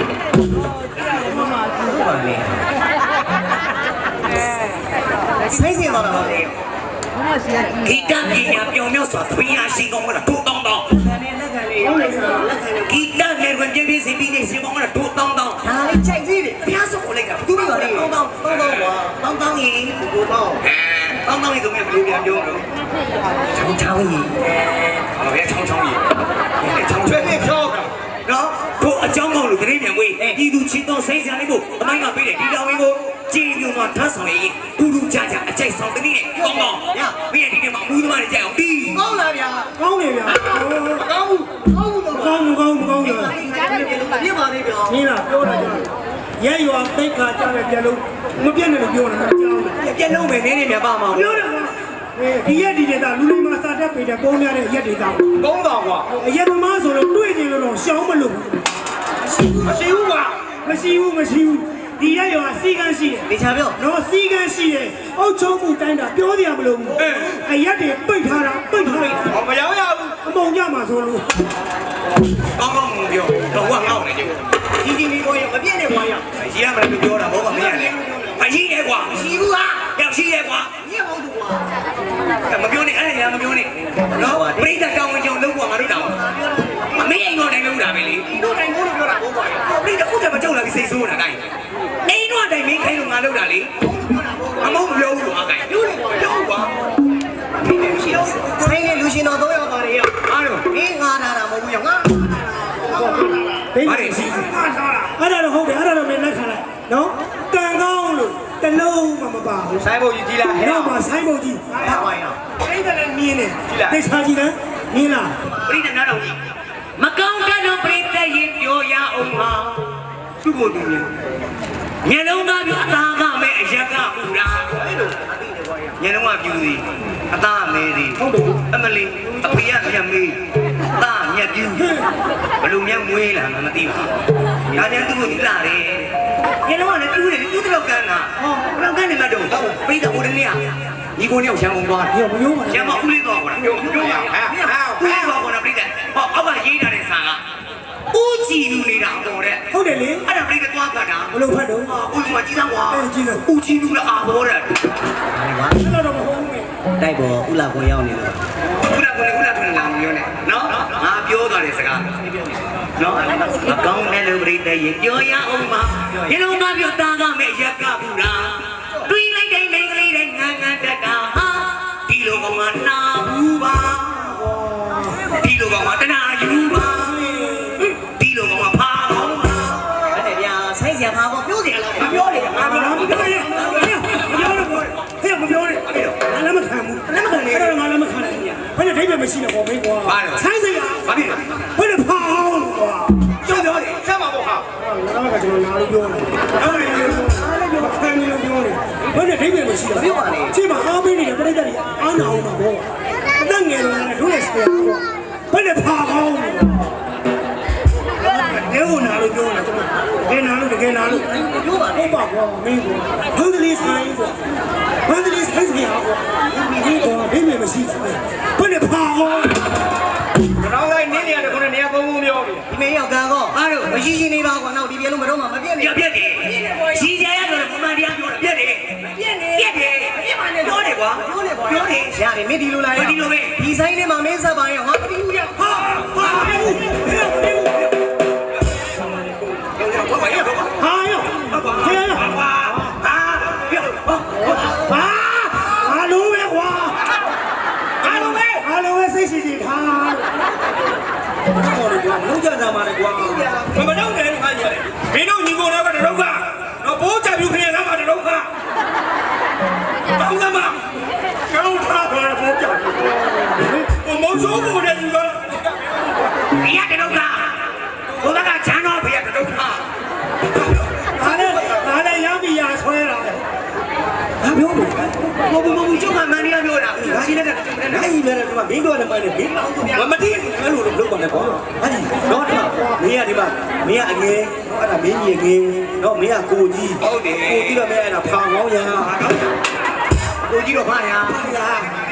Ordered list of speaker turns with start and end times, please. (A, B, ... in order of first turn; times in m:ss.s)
0:01.5-0:02.6 A
0:05.4-0:06.5 A
0:07.8-0:11.0 B
0:10.9-0:12.9 A
0:12.8-0:15.7 B
0:15.6-0:16.8 A
0:16.6-0:19.6 B
0:17.4-0:20.6 A
0:20.6-0:22.6 B
0:23.5-0:24.4 A
0:24.7-0:27.5 B
0:27.0-0:27.9 C
0:28.2-0:39.0 B
0:36.4-0:37.2 A
0:38.9-0:39.7 A
0:39.8-0:41.1 D
0:41.2-0:41.4 C
0:41.4-0:42.5 A
0:42.1-0:43.4 D
0:43.0-0:45.0 A
0:44.9-0:45.9 D
0:46.4-0:49.8 D
0:49.8-0:51.5 B
0:51.1-0:55.3 D
0:55.4-0:56.1 C
0:56.1-0:58.6 D
0:59.6-1:00.5 C
1:00.5-1:09.3 D
1:03.3-1:03.8 A
1:07.0-1:07.4 C
1:09.3-1:10.2 C
1:10.2-1:11.4 D
1:12.5-1:14.4 B
1:14.8-1:16.3 A
1:16.3-1:20.8 B
1:17.7-1:18.2 A
1:19.1-1:19.9 A
1:20.8-1:21.7 A
1:22.5-1:26.2 B
1:24.1-1:24.8 A
1:26.0-1:27.1 A
1:26.9-1:28.4 B
1:28.3-1:29.4 A
1:29.4-1:31.5 B
1:32.0-1:33.9 B
1:34.0-1:34.5 A
1:34.6-1:35.8 B
1:35.9-1:36.2 A
1:37.6-1:42.9 A
1:40.2-1:40.7 B
1:42.9-1:49.9 D
1:43.8-1:44.6 C
1:43.9-1:44.2 B
1:49.8-1:51.0 C
1:50.6-1:52.0 D
1:51.8-1:52.4 A
1:52.6-1:55.4 D
1:53.7-1:54.0 C
1:55.6-1:56.4 B
1:57.0-2:01.1 B
2:02.0-2:04.9 B
2:05.0-2:05.4 A
2:06.0-2:10.4 B
2:08.2-2:08.6 D
2:10.9-2:12.0 B
2:12.6-2:14.1 B
2:14.7-2:22.2 B
2:22.1-2:23.0 D
2:22.7-2:27.4 B
2:23.9-2:24.5 C
2:28.1-2:29.6 B
2:29.7-2:30.2 D
2:30.2-2:34.8 B
2:31.3-2:31.9 D
2:32.9-2:33.4 D
2:35.3-2:35.9 A
2:35.8-2:36.7 D
2:37.0-2:38.4 A
2:38.7-2:42.2 B
2:43.0-2:54.6 B
2:54.6-2:55.2 D
2:55.2-3:00.0 B
3:00.0-3:02.3 A
3:02.0-3:05.0 B
3:02.0-3:03.8 C
3:02.6-3:13.4 D
3:05.8-3:06.2 B
3:07.1-3:07.7 B
3:10.0-3:10.5 B
3:11.0-3:11.6 B
3:13.4-3:14.1 B
3:13.5-3:14.6 C
3:14.8-3:22.8 D
3:16.6-3:17.8 B
3:19.9-3:20.6 A
3:23.4-3:26.9 D
3:28.2-3:34.4 D
3:31.4-3:32.2 A
3:35.0-3:39.6 D
3:40.6-3:42.6 C
3:42.7-3:46.0 A
3:43.5-3:44.1 B
3:45.8-3:52.2 B
3:52.0-3:55.8 A
3:52.9-3:53.7 B
3:55.6-3:57.7 D
3:56.0-3:56.7 B
3:59.6-4:00.8 B
4:00.8-4:02.3 D
4:01.4-4:04.8 B
4:04.7-4:07.0 D
4:08.0-4:08.6 C
4:08.0-4:10.3 D
4:11.5-4:18.5 C
4:20.1-4:20.8 C
4:21.5-4:23.1 C
4:23.8-4:25.7 C
4:26.5-4:27.6 B
4:28.1-4:29.9 B
4:31.1-4:33.4 D
4:34.4-4:35.0 C
4:35.4-4:38.1 B
4:37.9-4:49.1 C
4:42.3-4:42.6 B
4:47.0-4:47.8 B
4:49.0-4:49.5 B
4:50.4-4:51.5 B
4:51.4-4:51.8 C